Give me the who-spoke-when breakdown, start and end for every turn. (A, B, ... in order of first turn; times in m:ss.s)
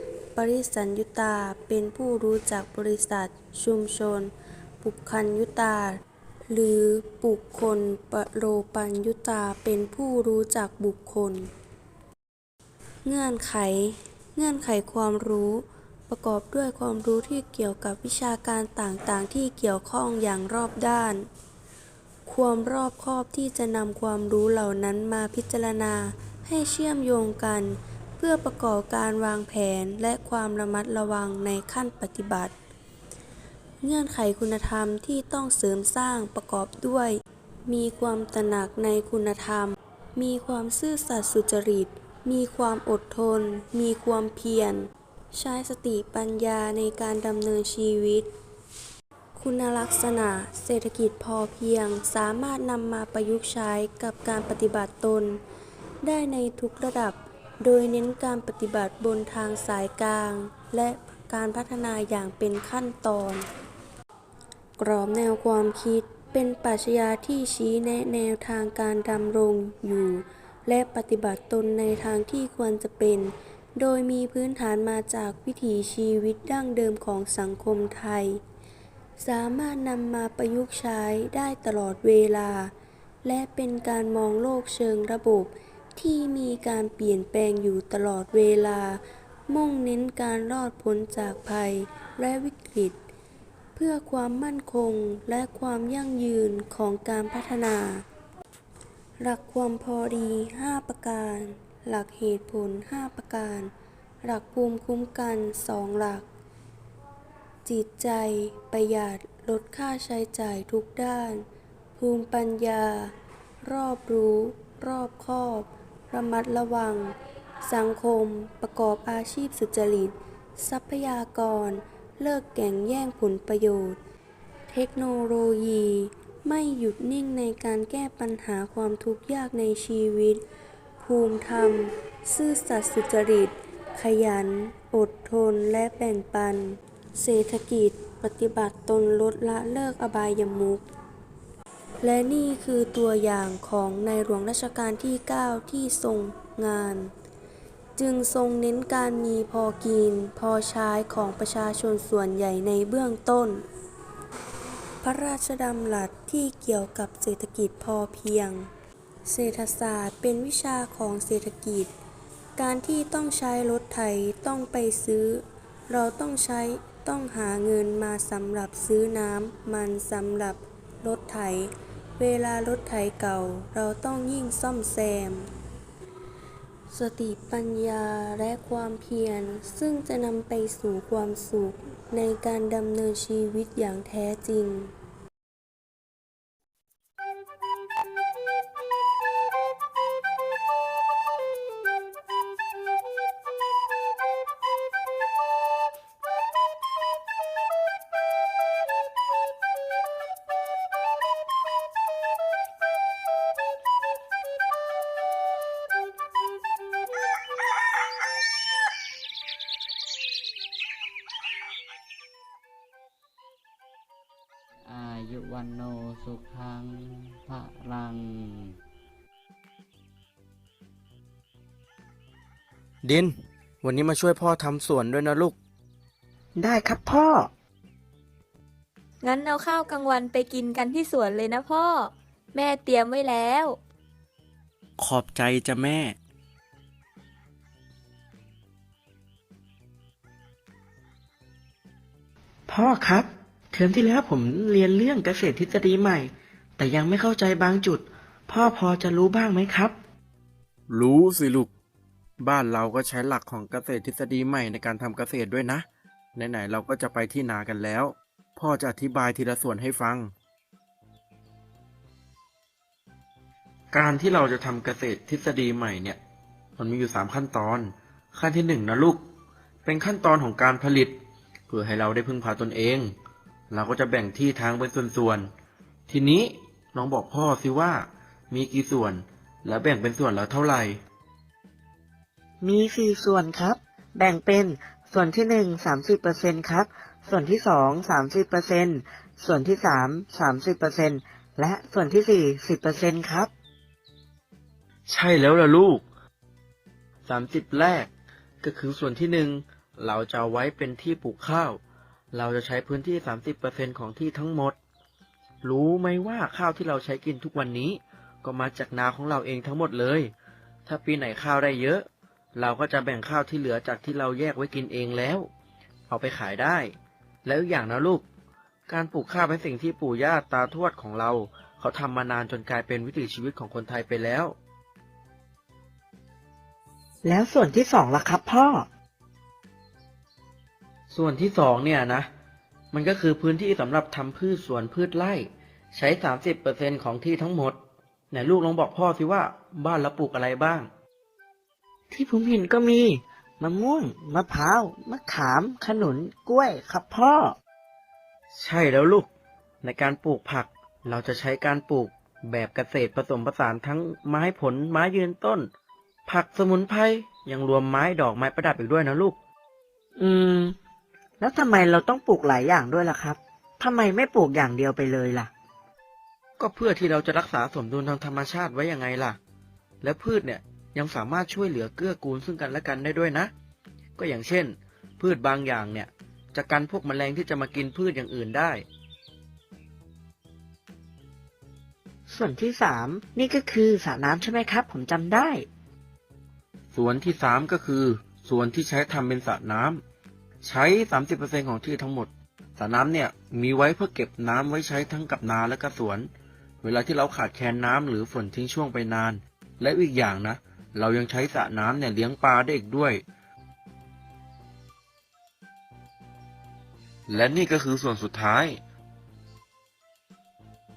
0:00.4-0:04.3 A
0:04.8-0:06.0 A
0:06.5-0:11.5 A
0:13.0-0:21.2 A
0:22.3-0:32.5 A
0:33.8-0:37.2 A
0:37.7-0:48.3 A
0:49.4-0:55.4 A
0:56.0-1:03.4 A
1:04.8-1:18.4 A
1:19.2-1:22.7 A
1:23.2-1:33.0 A
1:33.8-1:38.0 A
1:39.2-1:43.7 A
1:44.2-1:46.2 A
1:47.6-1:51.4 A
1:52.0-1:53.1 A
1:53.6-1:57.1 A
1:57.7-2:04.0 A
2:04.7-2:10.4 A
2:11.0-2:20.8 A
2:22.0-2:27.1 A
2:28.0-2:33.6 A
2:35.0-2:38.7 A
2:39.3-2:41.9 A
2:42.6-2:55.5 A
2:56.9-3:04.9 A
3:34.8-3:38.8 B
3:43.0-3:45.6 C
3:46.6-3:47.5 D
3:49.2-3:53.8 E
3:55.0-3:56.2 C
4:02.7-4:10.0 D
4:10.9-4:11.7 C
4:12.4-4:20.3 C
4:23.9-4:26.2 C
4:26.8-4:29.2 C
4:29.8-4:31.2 C
4:31.7-4:33.2 C
4:33.7-4:35.5 C
4:36.1-4:41.0 C
4:42.6-4:53.5 D
4:55.1-4:56.0 C
4:57.2-4:58.1 C
4:58.6-5:01.8 C
5:02.3-5:04.8 C
5:05.6-5:10.3 C
5:10.9-5:15.5 C
5:16.1-5:18.3 C
5:18.9-5:24.6 C
5:27.2-5:28.9 D
5:31.1-5:32.3 C
5:32.9-5:37.8 C
5:38.3-5:40.9 C
5:42.1-5:47.6 D
5:48.5-5:49.3 C
5:49.8-5:55.7 C
5:56.3-5:59.4 C
6:00.2-6:00.7 D
6:01.4-6:05.5 D
6:06.6-6:09.4 C
6:10.0-6:13.5 C
6:14.2-6:18.9 C
6:22.3-6:25.7 D
6:26.9-6:30.0 C
6:30.6-6:36.3 C
6:36.8-6:43.2 C
6:47.3-6:48.8 C